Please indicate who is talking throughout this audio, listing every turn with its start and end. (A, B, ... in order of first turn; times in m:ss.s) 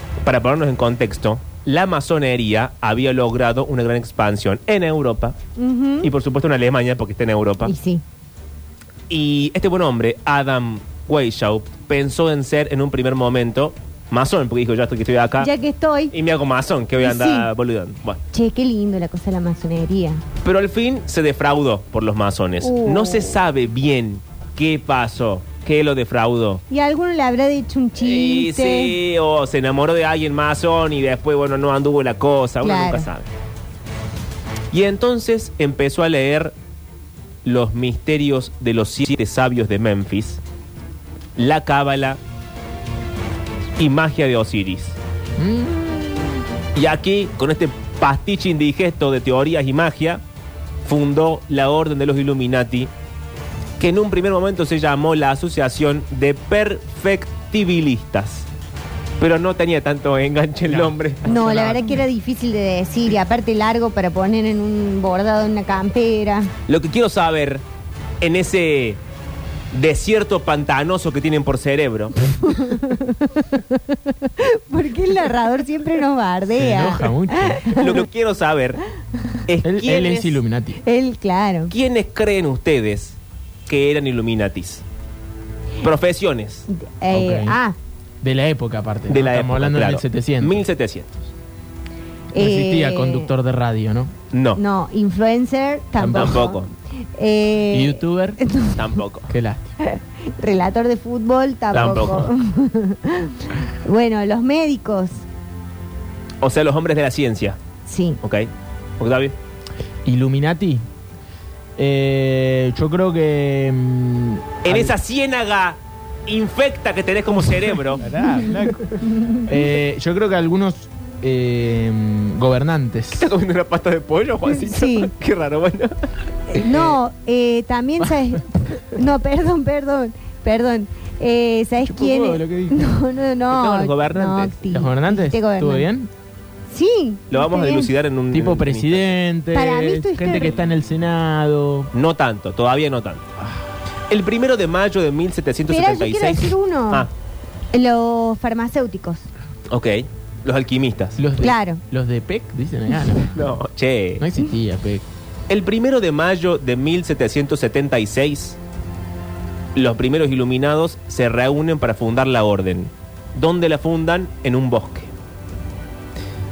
0:00.2-0:05.4 A
0:05.6-0:06.1 B
0:06.0-0:07.7 A
0:07.6-0:08.0 B
0:09.1-0:15.5 A
0:15.4-0:16.1 B
0:16.1-0:18.2 A
0:17.0-0:17.5 B
0:18.3-0:20.2 B
0:20.4-0:26.6 A
0:22.6-0:23.4 B
0:26.7-0:29.0 B
0:28.0-0:33.3 A
0:32.6-0:33.1 B
0:34.7-0:36.5 A
0:37.4-0:40.4 A
0:41.4-0:42.2 A
0:43.8-0:45.0 A
0:45.4-0:46.4 C
0:46.8-0:50.2 A
0:50.8-0:52.9 A
0:53.8-0:58.5 A
0:59.2-1:01.8 A
1:00.7-1:01.9 C
1:01.2-1:06.5 B
1:06.7-1:07.6 A
1:08.2-1:09.0 A
1:09.7-1:12.2 A
1:12.4-1:18.0 B
1:16.5-1:17.8 C
1:17.8-1:18.8 A
1:19.5-1:20.4 A
1:19.6-1:20.8 C
1:20.8-1:21.7 B
1:21.7-1:24.8 A
1:25.8-1:26.7 A
1:26.7-1:27.8 B
1:27.1-1:27.6 C
1:28.2-1:30.6 C
1:29.1-1:31.3 A
1:32.3-1:33.3 B
1:32.4-1:34.1 C
1:34.3-1:34.6 A
1:34.6-1:36.6 B
1:36.0-1:36.4 C
1:36.1-1:36.7 A
1:37.2-1:38.8 B
1:37.7-1:38.4 C
1:38.7-1:39.3 A
1:39.3-1:39.7 C
1:39.8-1:45.2 B
1:41.7-1:42.3 A
1:46.4-1:47.6 A
1:47.9-1:48.2 B
1:48.2-1:49.4 A
1:50.0-1:50.8 C
1:51.8-1:54.9 C
1:54.6-1:58.0 A
1:58.0-2:03.3 C
2:03.2-2:06.0 A
2:04.5-2:05.1 B
2:06.5-2:15.9 B
2:06.6-2:06.9 A
2:11.8-2:13.0 C
2:13.5-2:14.6 A
2:14.7-2:16.1 C
2:16.7-2:17.9 B
2:17.3-2:19.2 A
2:18.3-2:21.9 C
2:19.5-2:20.6 B
2:21.9-2:23.3 A
2:24.1-2:27.1 A
2:25.7-2:27.1 B
2:27.7-2:29.3 B
2:29.7-2:31.2 A
2:31.2-2:33.5 C
2:31.4-2:31.8 B
2:33.3-2:34.2 A
2:34.2-2:35.0 C
2:35.5-2:38.6 A
2:39.8-2:45.1 A